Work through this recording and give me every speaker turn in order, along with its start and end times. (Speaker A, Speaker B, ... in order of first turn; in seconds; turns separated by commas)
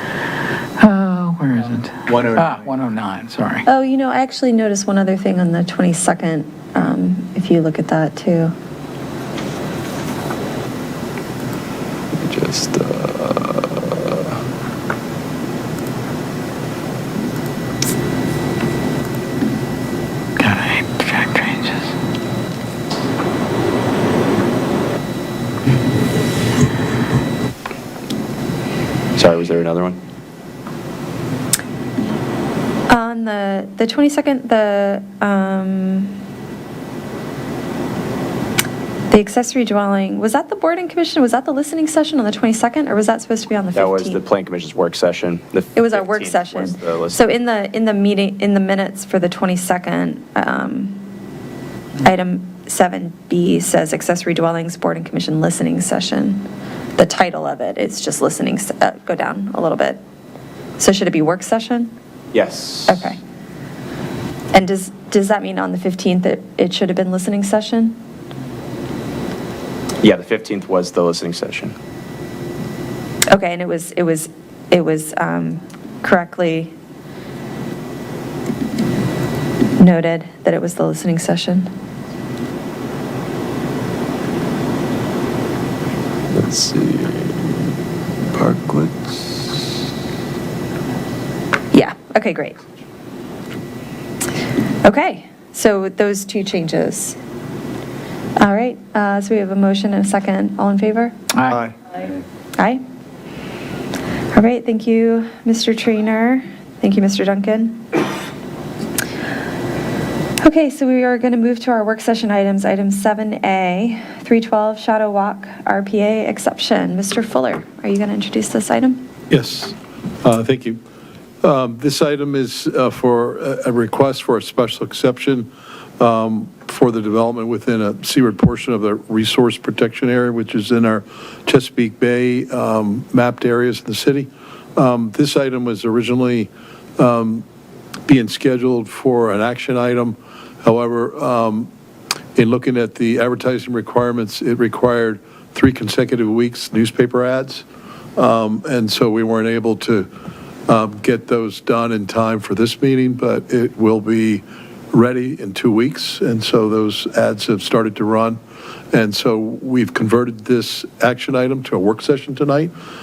Speaker A: 0.8-3.6, Speaker B: 3.6-8.5, Speaker C: 12.1-14.3, Speaker A: 20.4-21.9, Speaker C: 29.1-30.0, Speaker B: 32.9-36.1, Speaker B: 39.1-44.2, Speaker C: 43.7-47.2, Speaker B: 45.7-51.0, Speaker B: 52.0-60.0, Speaker B: 60.8-61.9, Speaker C: 62.3-63.1, Speaker B: 62.9-63.2, Speaker B: 64.5-68.0, Speaker C: 70.0-71.7, Speaker B: 73.3-76.7, Speaker B: 79.8-81.7, Speaker C: 86.3-87.6, Speaker C: 88.3-89.7, Speaker B: 91.7-92.6, Speaker B: 94.8-97.2, Speaker B: 98.4-101.1, Speaker A: 101.3-101.6, Speaker B: 102.6-102.8, Speaker B: 104.3-107.8, Speaker B: 110.4-119.0, Speaker D: 119.3-120.8, Speaker D: 121.4-137.4, Speaker D: 138.1-141.7, Speaker D: 142.3-147.6, Speaker D: 148.2-150.1, Speaker D: 150.7-158.4, Speaker D: 158.9-162.7